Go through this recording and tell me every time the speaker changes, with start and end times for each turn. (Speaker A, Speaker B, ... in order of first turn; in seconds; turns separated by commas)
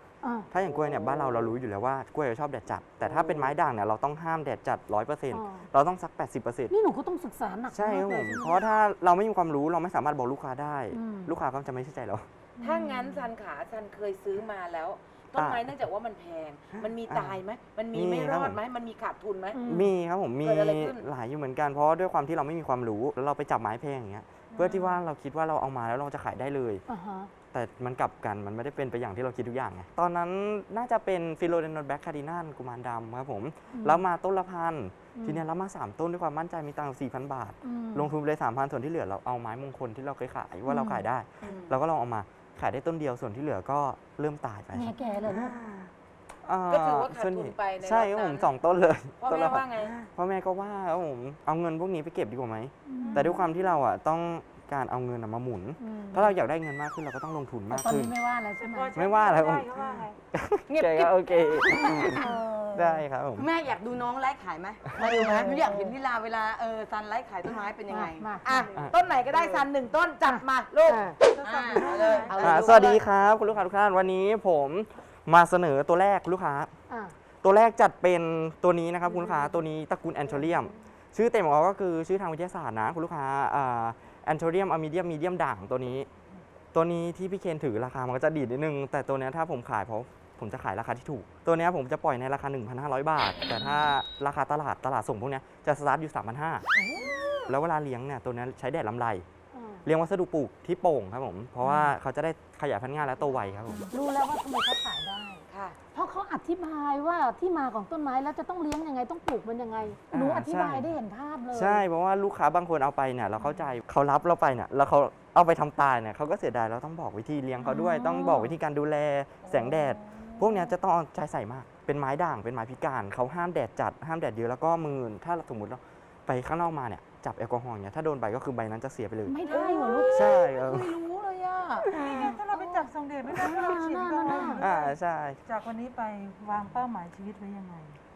Speaker A: 0.2-0.5, Speaker B: 0.5-6.7, Speaker C: 0.8-1.3, Speaker A: 5.3-5.7, Speaker A: 6.7-8.6, Speaker B: 7.7-12.3, Speaker A: 10.9-11.3, Speaker D: 12.6-13.2, Speaker E: 12.6-19.6, Speaker B: 15.4-15.7, Speaker B: 17.1-17.4, Speaker B: 17.9-18.6, Speaker A: 19.5-19.9, Speaker B: 19.7-26.8, Speaker E: 20.4-21.0, Speaker D: 24.5-25.0, Speaker A: 26.9-27.3, Speaker B: 27.5-45.9, Speaker A: 33.7-34.1, Speaker A: 35.1-35.4, Speaker A: 37.6-38.1, Speaker A: 40.7-41.1, Speaker A: 44.7-45.5, Speaker B: 46.4-58.1, Speaker E: 46.7-48.5, Speaker E: 49.2-49.9, Speaker A: 52.9-53.4, Speaker D: 53.0-53.5, Speaker A: 55.8-56.3, Speaker A: 57.7-59.0, Speaker D: 58.6-60.2, Speaker B: 59.0-63.5, Speaker C: 60.7-62.2, Speaker A: 62.2-63.0, Speaker C: 63.4-68.7, Speaker A: 65.0-66.0, Speaker A: 67.5-68.6, Speaker E: 68.4-71.2, Speaker C: 69.3-69.7, Speaker A: 70.2-71.2, Speaker D: 71.2-72.5, Speaker C: 71.4-73.0, Speaker E: 72.3-72.9, Speaker B: 72.4-76.7, Speaker A: 76.9-77.2, Speaker B: 77.4-86.1, Speaker B: 86.7-96.7, Speaker E: 96.7-97.6, Speaker B: 97.5-99.2, Speaker A: 99.5-99.8, Speaker B: 99.8-103.8, Speaker A: 103.9-105.4, Speaker E: 105.5-105.8, Speaker A: 105.9-111.8, Speaker B: 110.1-110.9, Speaker B: 111.5-129.3, Speaker A: 117.6-118.5, Speaker E: 119.4-120.6, Speaker A: 129.3-130.4, Speaker E: 129.5-132.0, Speaker B: 130.1-131.0, Speaker D: 131.9-138.0, Speaker B: 132.0-132.4, Speaker A: 133.3-134.6, Speaker B: 134.6-135.4